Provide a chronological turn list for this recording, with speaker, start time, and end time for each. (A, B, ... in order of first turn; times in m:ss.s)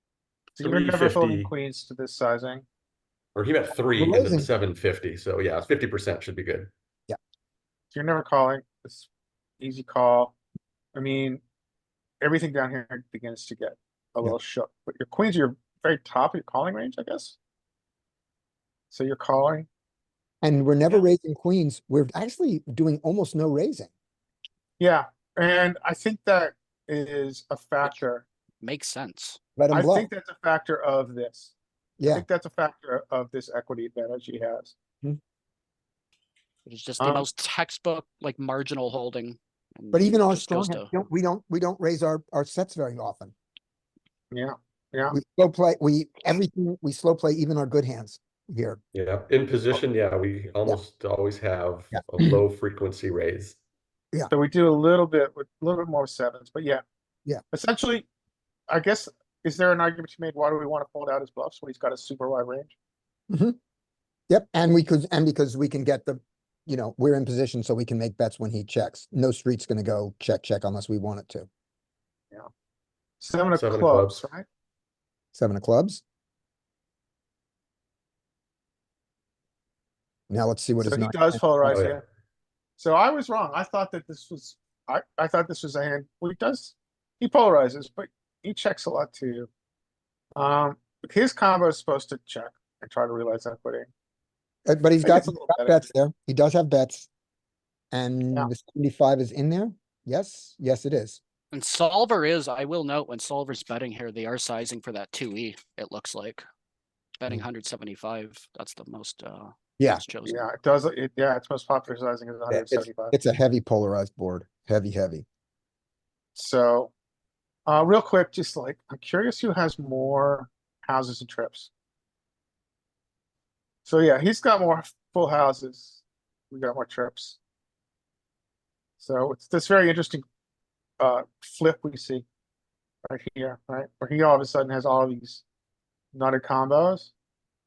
0:00.6-0:02.6 A
0:00.6-0:01.5 B
0:03.3-0:06.7 B
0:03.9-0:04.5 C
0:07.9-0:09.1 A
0:09.6-0:10.3 A
0:10.9-0:11.4 A
0:12.2-0:17.4 A
0:18.9-0:19.7 A
0:20.4-0:23.9 C
0:24.8-0:28.2 A
0:28.6-0:29.4 D
0:29.6-0:30.1 C
0:29.7-0:31.5 A
0:32.0-0:32.2 C
0:32.1-0:34.7 A
0:36.6-0:40.9 D
0:37.0-0:37.3 A
0:39.9-0:43.3 C
0:44.3-0:45.2 A
0:45.1-0:48.8 C
0:48.9-0:53.6 B
0:51.9-0:52.4 C
0:54.3-0:56.8 A
0:57.5-0:58.1 A
0:58.7-1:02.7 A
1:03.3-1:03.6 C
1:04.3-1:11.5 C
1:13.2-1:14.4 A
1:13.5-1:14.3 B
1:15.3-1:16.0 C
1:20.3-1:21.4 C
1:20.8-1:22.0 A
1:21.6-1:22.0 B
1:22.8-1:29.5 A
1:30.4-1:33.9 A
1:34.6-1:37.1 C
1:35.0-1:35.8 A
1:37.9-1:41.2 C
1:41.5-1:46.4 D
1:47.2-1:50.5 D
1:49.8-1:50.0 C
1:50.2-1:53.1 A
1:52.5-1:55.2 C
1:56.4-1:56.9 A
1:57.6-2:01.7 A
2:03.8-2:07.4 A
2:09.0-2:10.2 A
2:11.0-2:12.2 A
2:13.0-2:15.4 A
2:16.1-2:17.1 A